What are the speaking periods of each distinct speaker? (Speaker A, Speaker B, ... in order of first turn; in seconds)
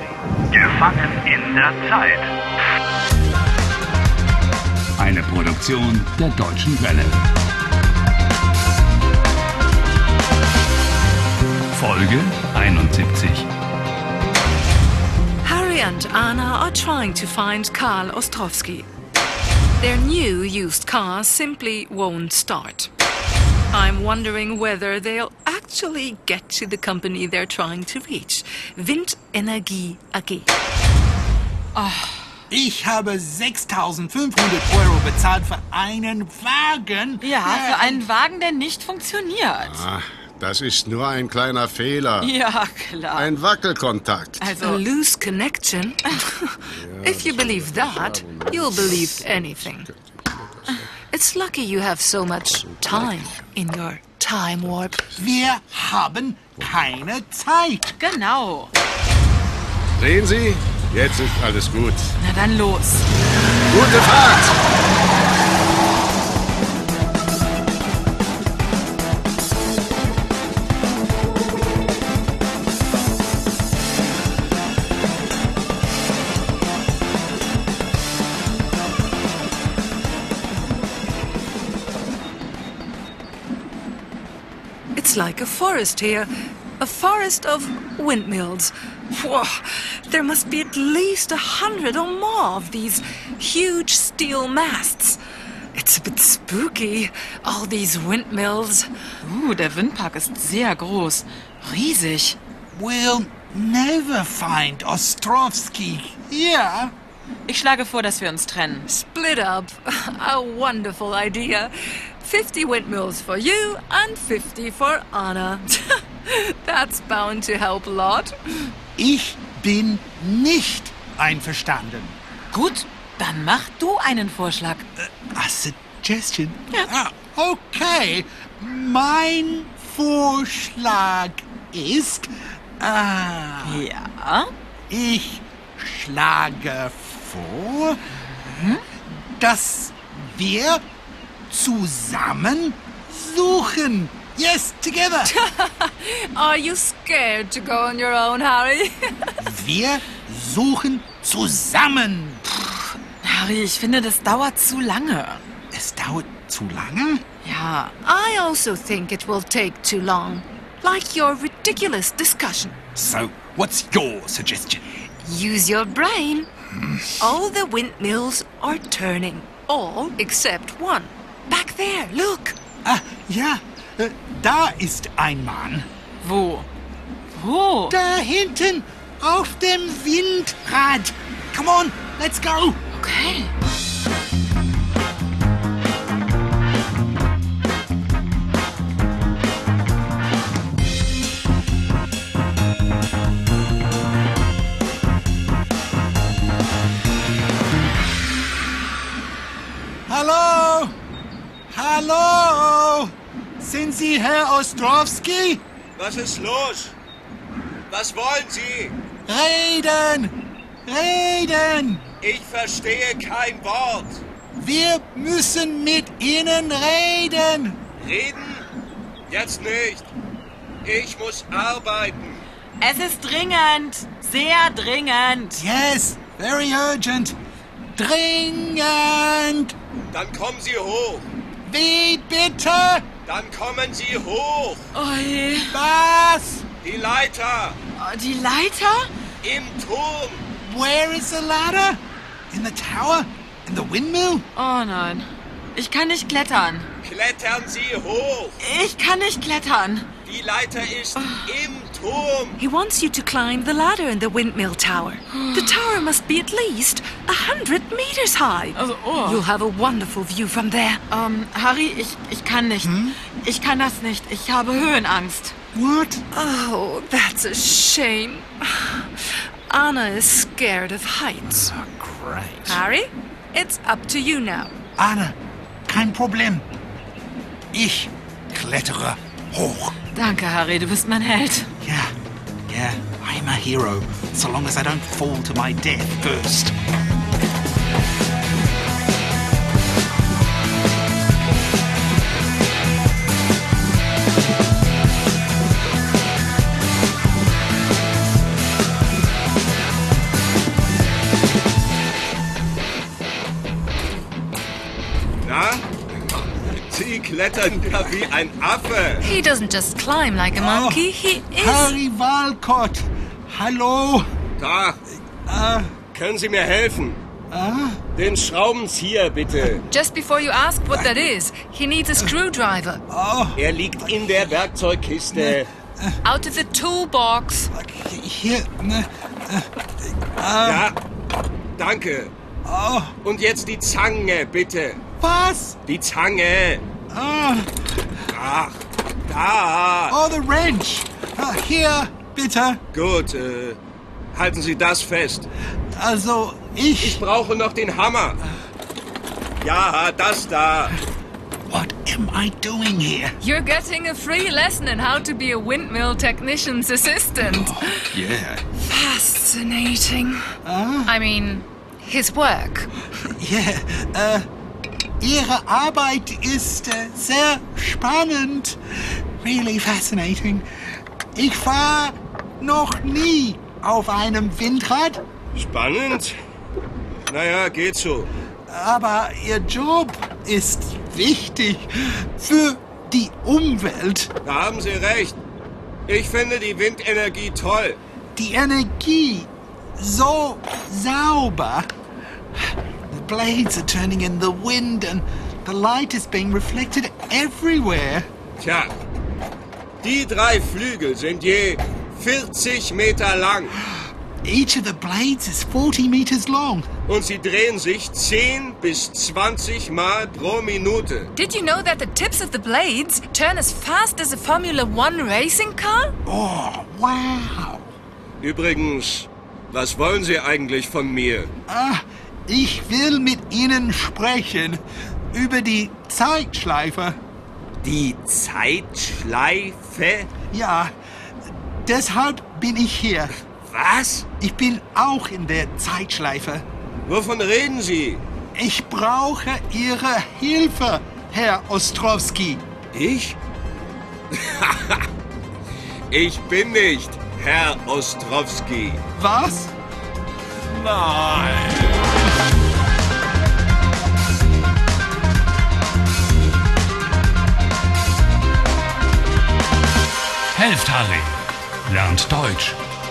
Speaker A: 0.5-2.3, 5.0-7.2, 11.7-13.5, 460.5-462.8
Speaker B: 15.4-18.9, 19.8-22.9, 23.7-30.5, 44.6-49.9, 51.1-55.0, 85.0-95.2, 95.8-98.9, 108.9-118.3, 145.2-149.3, 158.0-162.8, 165.2-166.5, 167.2-172.6, 252.6-261.0, 266.3-271.7, 272.7-274.7, 309.2-312.0, 319.9-323.0, 326.2-327.7, 353.4-358.2, 358.8-360.4, 361.1-362.9, 411.4-416.1
Speaker C: 31.8-32.2, 37.2-39.9, 42.2-43.3, 44.4-44.8, 58.0-58.7, 62.2-63.1, 99.2-102.4, 107.5-108.9, 122.5-124.8, 133.6-134.5, 138.6-138.8, 153.2-155.4, 157.4-157.9, 176.2-176.7, 177.3-177.9, 182.9-183.5, 222.8-225.6, 234.9-235.8, 238.0-239.1, 244.6-246.9, 248.6-250.1, 251.2-251.5, 255.3-255.8, 258.8-259.4, 261.1-265.5, 280.1-281.7
Speaker D: 32.5-38.0, 55.2-57.9, 102.7-106.9, 119.0-122.2, 125.0-133.8, 134.9-138.0, 139.4-140.8, 141.5-145.3, 149.4-152.5, 155.7-157.2, 162.9-164.9, 172.8-175.9, 177.9-182.8, 200.1-200.9, 201.7-205.6, 209.3-212.1, 214.6-217.8, 225.6-227.4, 228.0-229.8, 231.7-233.1, 235.7-236.6, 240.6-244.5, 262.8-263.2, 265.7-266.2, 271.5-272.8, 275.0-275.4, 275.9-276.7, 277.7-279.9, 281.8-282.1, 282.7-286.8, 310.5-314.3, 315.5-315.9, 317.5-318.0, 323.1-324.1, 325.3-326.2, 327.7-329.7, 330.2-330.9, 332.6-333.2, 335.2-335.8, 337.1-337.7, 340.1-342.8, 345.9-347.2, 351.7-353.4, 357.4-358.6, 360.6-361.1, 363.3-364.5, 365.2-370.6, 371.4-375.2, 378.7-384.3, 388.4-391.9, 392.6-398.3, 403.9-406.9, 416.3-417.9, 421.7-427.2, 430.5-430.9, 431.8-433.3, 434.4-436.6, 438.6-442.6, 449.2-449.7, 450.7-452.1
Speaker E: 39.6-42.4, 43.1-44.5, 46.9-49.0, 60.0-62.1, 63.7-64.6
Speaker F: 206.0-206.9, 207.9-209.0, 212.2-214.2, 218.0-218.7, 219.3-220.1, 220.8-222.4, 230.1-231.3, 233.3-234.9, 236.8-237.8, 239.4-240.4, 247.0-248.6, 250.2-252.6, 305.4-309.4, 314.6-315.0, 316.1-317.2, 318.2-319.8, 323.6-325.7, 330.6-331.0, 331.8-332.3, 333.2-335.0, 335.9-336.9, 338.3-340.2, 342.9-343.8, 344.3-345.5, 347.0-348.4, 349.6-351.0, 375.5-376.3, 377.3-378.3, 384.4-385.4, 386.1-388.0, 398.6-398.9, 400.0-403.8, 407.1-411.3, 418.4-421.5, 427.8-430.3, 433.6-434.3, 437.1-438.2, 442.9-443.4, 444.3-445.1, 446.1-449.0